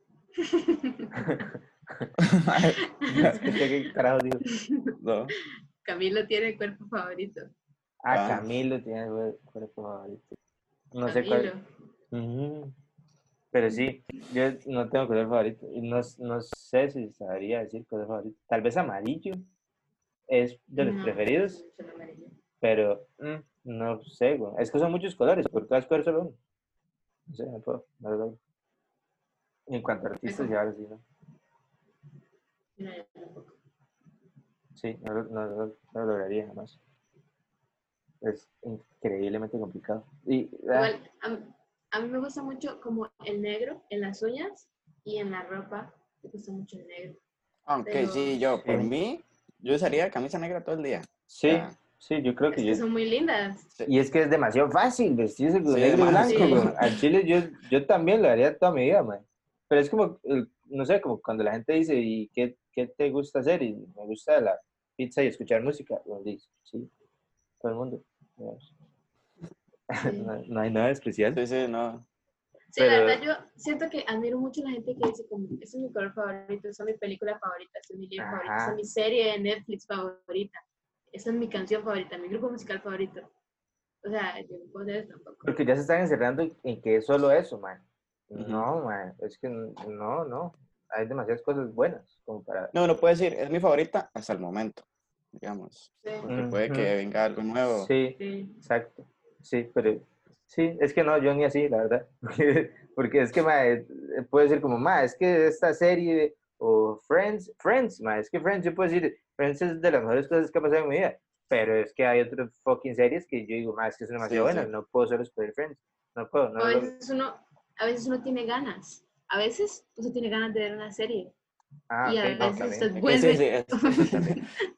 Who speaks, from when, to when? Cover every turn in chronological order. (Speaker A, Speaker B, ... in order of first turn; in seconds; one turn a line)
Speaker A: 0.5-1.1
Speaker B: 1.1-2.1
Speaker C: 2.2-3.6
Speaker A: 3.0-3.6
Speaker B: 3.1-4.4
Speaker A: 4.5-4.9
Speaker C: 5.0-5.3
Speaker A: 5.8-7.5
Speaker B: 8.0-10.4
Speaker C: 8.1-8.5
Speaker B: 10.9-11.5
Speaker A: 11.1-11.6
Speaker B: 12.1-12.7
Speaker B: 13.5-19.4
Speaker B: 20.3-21.6
Speaker A: 20.8-22.4
Speaker B: 22.6-26.4
Speaker B: 27.3-28.4
Speaker B: 29.7-31.0
Speaker A: 30.2-30.5
Speaker A: 32.8-33.6
Speaker B: 34.8-36.8
Speaker B: 38.2-40.9
Speaker A: 40.7-47.2
Speaker C: 47.6-51.8
Speaker A: 47.8-48.4
Speaker B: 48.6-48.9
Speaker B: 51.3-52.8
Speaker A: 52.5-53.7
Speaker B: 53.9-66.9
Speaker C: 55.7-57.0
Speaker A: 56.2-56.7
Speaker B: 67.6-68.7
Speaker B: 69.9-71.4
Speaker A: 70.0-70.3
Speaker C: 71.3-72.0
Speaker A: 72.7-80.6
Speaker B: 72.8-73.2
Speaker B: 78.2-78.8
Speaker A: 81.1-83.3
Speaker A: 84.0-85.5
Speaker B: 85.4-92.7
Speaker C: 88.3-88.7
Speaker C: 92.7-97.9
Speaker B: 96.3-96.9
Speaker B: 97.7-116.9
Speaker A: 98.2-98.6
Speaker C: 114.2-114.7
Speaker A: 116.6-121.3
Speaker B: 121.9-122.9
Speaker A: 122.0-124.5
Speaker C: 122.9-124.4